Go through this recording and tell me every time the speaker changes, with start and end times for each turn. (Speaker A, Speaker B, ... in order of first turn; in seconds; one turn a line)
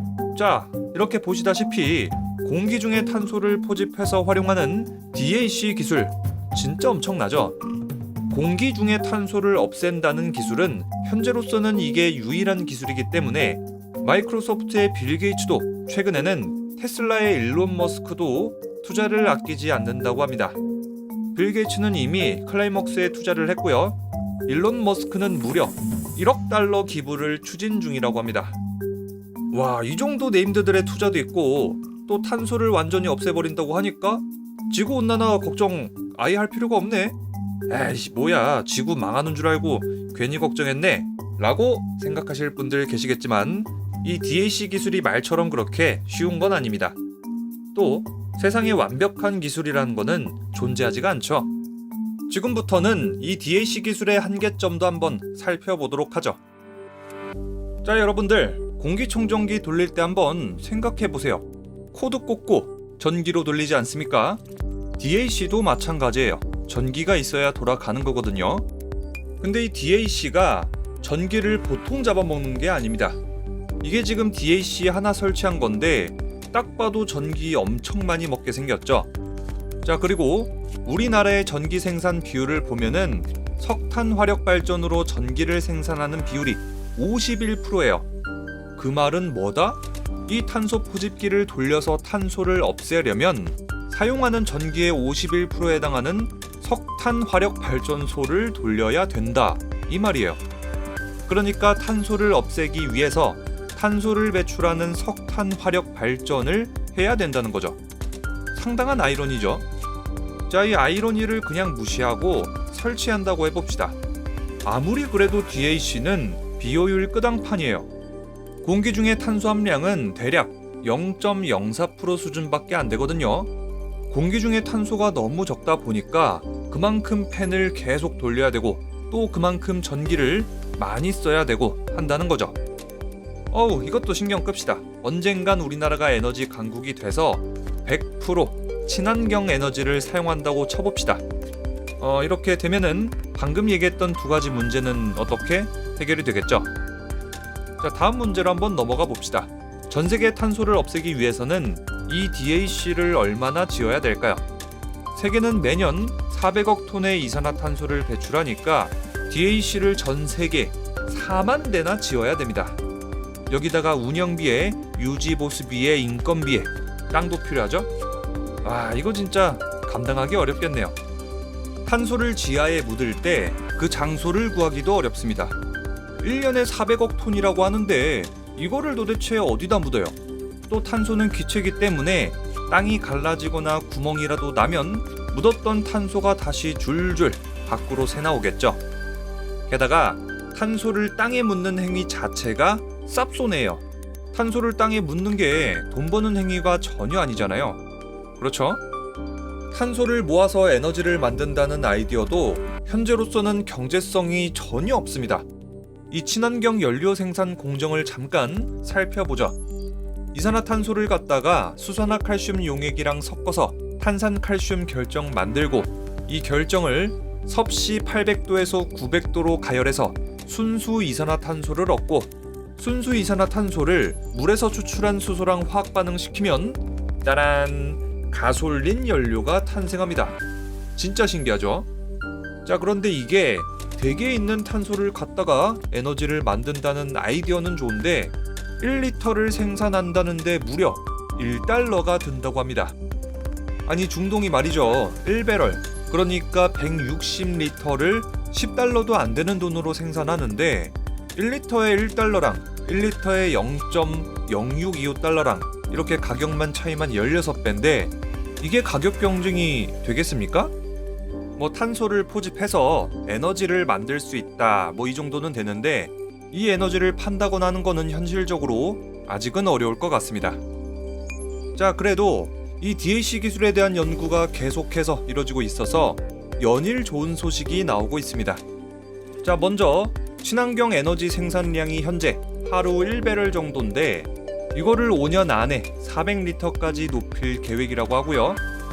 Speaker A: 0.3-7.6
Speaker A: 8.3-20.6
Speaker A: 21.3-28.6
Speaker A: 29.5-37.1
Speaker A: 37.7-47.0
Speaker A: 47.7-51.5
Speaker A: 52.3-56.4
Speaker A: 57.8-64.4
Speaker A: 65.0-68.7
Speaker A: 69.4-73.2
Speaker A: 73.8-79.1
Speaker A: 79.8-88.1
Speaker A: 88.8-100.4
Speaker A: 101.2-107.8
Speaker A: 108.5-109.6
Speaker A: 110.5-114.0
Speaker A: 114.6-117.9
Speaker A: 118.6-123.5
Speaker A: 124.1-132.6
Speaker A: 133.5-141.2
Speaker A: 142.0-146.7
Speaker A: 147.8-154.4
Speaker A: 155.1-162.8
Speaker A: 163.5-167.9
Speaker A: 168.6-171.0
Speaker A: 171.8-175.6
Speaker A: 176.2-180.2
Speaker A: 180.7-188.8
Speaker A: 189.7-197.8
Speaker A: 198.4-198.8
Speaker A: 199.7-205.4
Speaker A: 206.1-209.6
Speaker A: 210.3-230.4
Speaker A: 230.9-231.9
Speaker A: 232.6-242.9
Speaker A: 243.8-260.7
Speaker A: 261.6-270.6
Speaker A: 271.8-278.6
Speaker A: 279.4-288.6